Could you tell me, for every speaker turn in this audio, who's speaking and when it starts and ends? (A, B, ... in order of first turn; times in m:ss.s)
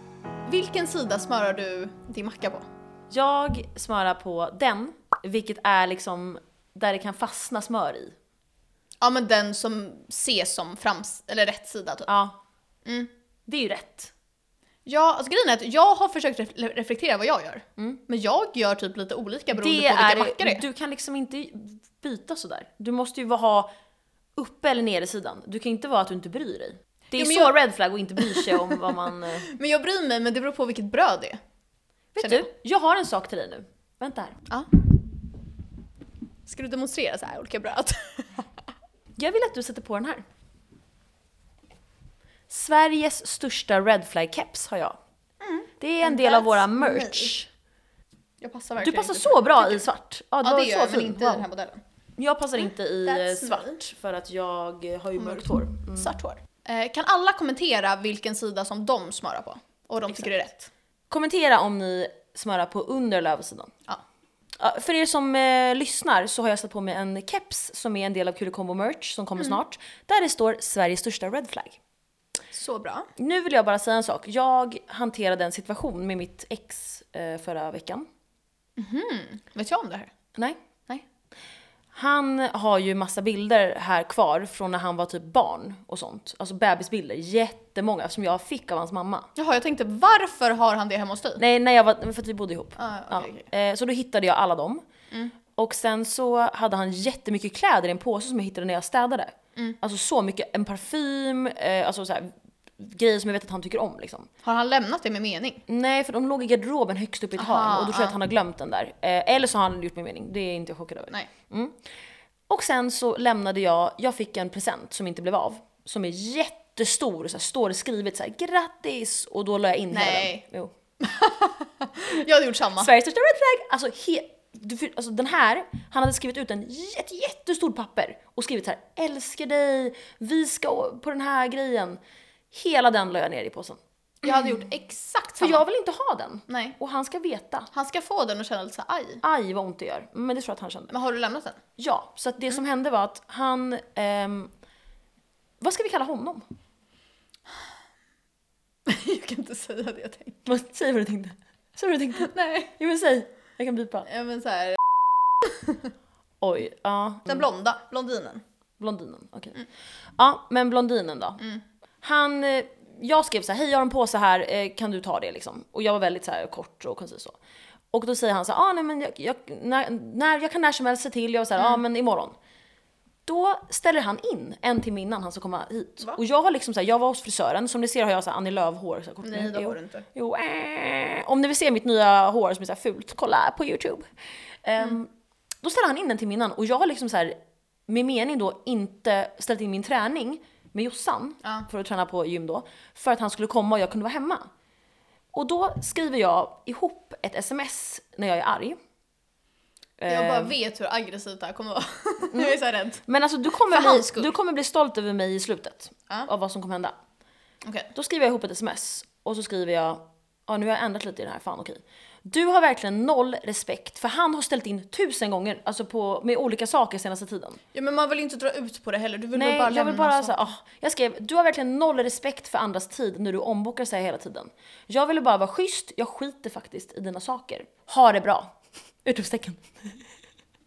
0:00.5-0:02.7 A
0:03.1-0:08.2 B
0:09.0-0:12.1 A
0:12.1-0:12.4 B
0:12.8-0:13.1 A
0:13.5-0:14.1 B
0:14.9-0:20.6 A
0:19.6-0:23.7 B
0:24.4-0:29.5 B
0:27.2-0:27.6 A
0:28.2-0:31.4 A
0:32.1-0:34.4 B
0:32.2-0:32.5 A
0:36.5-0:38.5 A
0:39.2-0:40.2 B
0:42.5-0:45.0 B
0:45.4-0:47.3 A
0:45.8-0:47.5 B
0:48.4-0:49.9 A
0:48.8-0:51.4 B
0:50.4-0:51.8 A
0:52.2-0:56.1 B
0:52.6-0:53.8 A
0:55.2-1:00.7 A
1:01.1-1:03.7 B
1:04.6-1:11.8 B
1:12.5-1:13.1 A
1:13.2-1:18.1 B
1:18.8-1:20.1 A
1:21.9-1:29.3 B
1:29.4-1:31.4 A
1:31.4-1:34.9 B
1:32.8-1:33.5 A
1:35.5-1:44.3 B
1:44.4-1:45.6 A
1:45.7-1:51.8 B
1:47.4-1:48.2 A
1:52.5-2:00.7 B
1:59.9-2:00.4 A
2:01.0-2:02.9 A
2:02.8-2:12.0 B
2:12.5-2:14.4 B
2:14.2-2:15.6 A
2:15.4-2:17.7 B
2:16.5-2:16.8 A
2:17.7-2:19.2 A
2:19.2-2:20.9 B
2:20.9-2:21.6 A
2:21.8-2:24.5 B
2:25.6-2:26.4 B
2:28.9-2:30.4 A
2:30.5-2:34.1 B
2:32.2-2:32.8 A
2:34.1-2:34.8 A
2:35.4-2:35.9 A
2:36.4-2:37.4 B
2:37.3-2:38.4 A
2:38.8-2:41.4 B
2:42.0-2:47.4 B
2:47.9-2:52.4 B
2:53.3-3:04.1 B
2:59.2-3:00.1 A
3:04.6-3:05.1 B
3:05.6-3:07.4 B
3:07.9-3:14.5 B
3:15.3-3:18.8 B
3:20.0-3:20.6 B
3:20.1-3:24.3 A
3:22.3-3:27.0 B
3:27.6-3:27.9 A
3:27.9-3:37.6 B
3:37.7-3:40.4 A
3:39.4-3:50.0 B